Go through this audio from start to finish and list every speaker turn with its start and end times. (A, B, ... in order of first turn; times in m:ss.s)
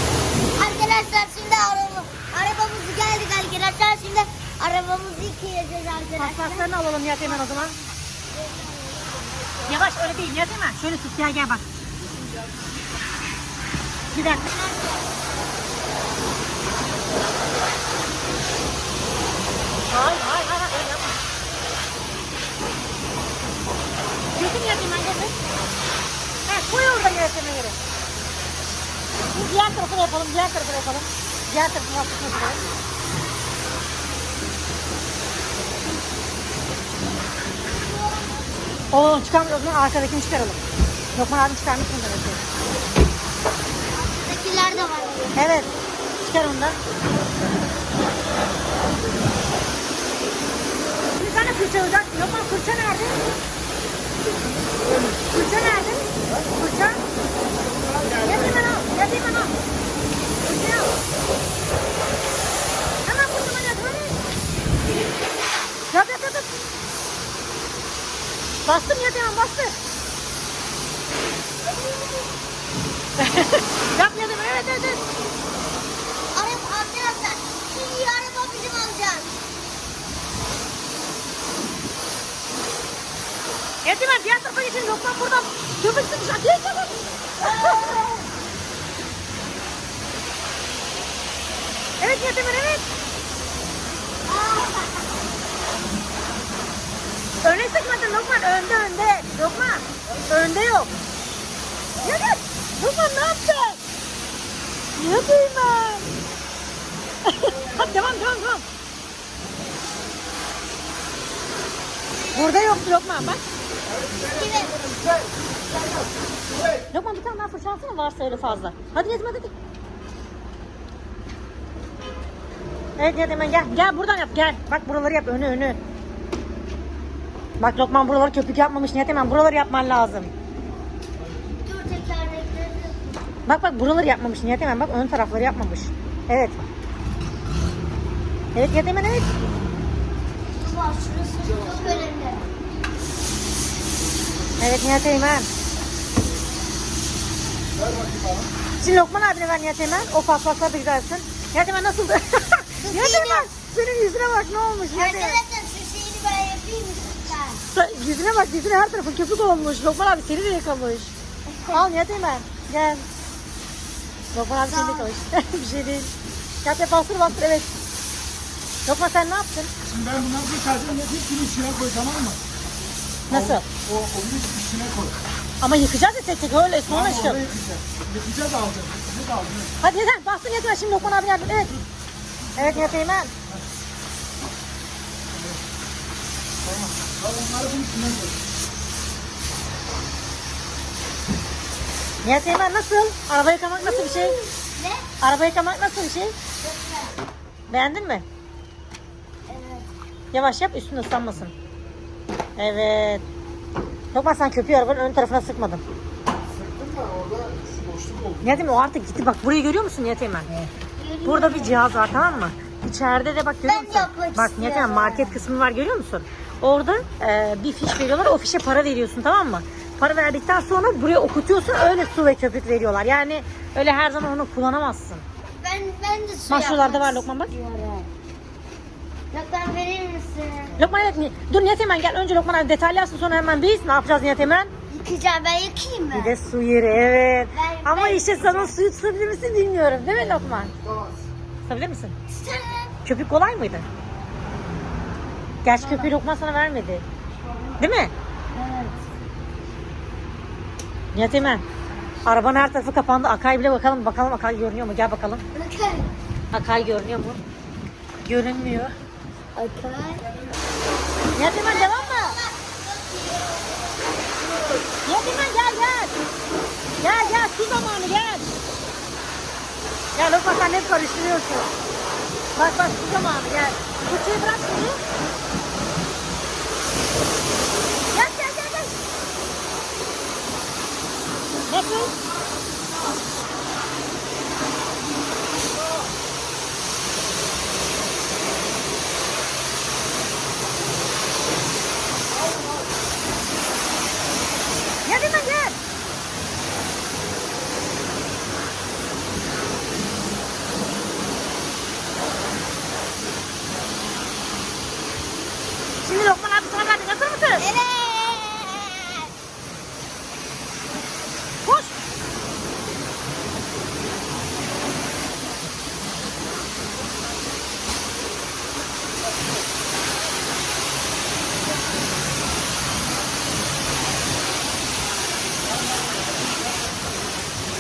0:00.6-0:06.7 A
0:06.2-0:07.8 B
0:08.3-0:09.8 A
0:09.7-0:11.6 B
0:14.1-0:14.5 B
0:14.3-0:15.3 A
0:19.9-0:21.2 B
0:24.4-0:25.3 B
0:26.5-0:27.8 B
0:29.3-0:32.6 B
0:37.6-0:38.6 A
0:38.9-0:40.6 B
0:41.2-0:42.4 B
0:43.9-0:45.4 A
0:45.3-0:46.8 B
0:51.2-0:53.2 B
0:54.4-0:55.2 C
0:55.2-0:57.0 B
0:57.7-0:58.6 C
0:58.2-0:59.5 B
1:00.4-1:00.9 B
1:03.0-1:04.2 B
1:05.9-1:06.5 B
1:08.6-1:09.7 B
1:13.2-1:15.0 B
1:16.3-1:19.3 A
1:23.8-1:28.0 B
1:27.4-1:28.2 A
1:32.0-1:32.8 B
1:34.3-1:35.0 A
1:37.4-1:40.9 B
1:42.0-1:43.8 B
1:45.0-1:46.1 B
1:47.3-1:48.6 B
1:52.3-1:52.7 A
1:52.3-1:53.4 B
1:54.0-1:55.3 C
1:54.2-1:54.8 A
1:56.9-1:59.5 B
2:03.0-2:05.8 B
2:07.6-2:10.3 B
2:11.6-2:13.0 A
2:13.5-2:16.6 B
2:18.5-2:19.3 B
2:20.6-2:22.5 A
2:24.6-2:25.5 B
2:27.8-2:28.5 C
2:28.8-2:35.4 B
2:32.8-2:33.5 A
2:34.9-2:37.6 A
2:37.7-2:41.1 B
2:41.5-2:41.8 A
2:41.7-2:43.1 B
2:44.3-2:46.1 B
2:44.6-2:45.1 A
2:46.6-2:47.7 B
2:48.8-2:49.7 B
2:49.9-2:52.4 C
2:53.3-2:53.6 B
2:53.3-2:55.2 C
2:55.6-2:57.4 B
2:56.9-2:59.7 C
2:59.8-3:01.8 B
3:02.6-3:03.3 B
3:06.7-3:08.4 C
3:12.2-3:14.4 B
3:13.8-3:15.1 A
3:15.2-3:16.3 B
3:16.6-3:17.2 A
3:17.7-3:18.2 B
3:19.5-3:19.9 A
3:20.3-3:21.5 B
3:22.6-3:23.2 B
3:24.1-3:25.8 B
3:26.5-3:28.6 C
3:28.4-3:30.7 B
3:31.0-3:31.8 A
3:31.2-3:45.2 B
3:33.6-3:35.4 A
3:45.6-3:48.1 A
3:46.5-3:47.5 B
3:49.3-3:51.0 A
3:50.8-3:54.7 B
3:54.9-3:56.4 A
3:56.1-4:00.7 B
3:57.5-3:58.7 A
4:00.8-4:01.2 C
4:01.6-4:02.2 B
4:02.3-4:03.0 A
4:03.0-4:03.9 B
4:05.6-4:07.0 B
4:05.7-4:06.1 A
4:07.8-4:08.1 B
4:08.5-4:09.0 A
4:11.1-4:11.6 B
4:12.3-4:15.4 B
4:15.6-4:16.1 A
4:16.5-4:17.4 B
4:18.2-4:18.9 B
4:19.6-4:20.3 A
4:21.4-4:22.4 B
4:21.5-4:24.5 A
4:25.0-4:26.1 B
4:27.0-4:28.5 B
4:27.0-4:27.4 A
4:30.2-4:31.7 B
4:32.6-4:35.0 B
4:38.1-4:38.9 B
4:41.7-4:42.1 B
4:55.0-4:55.8 B
5:06.0-5:07.7 B
5:07.6-5:09.3 A
5:11.6-5:11.9 B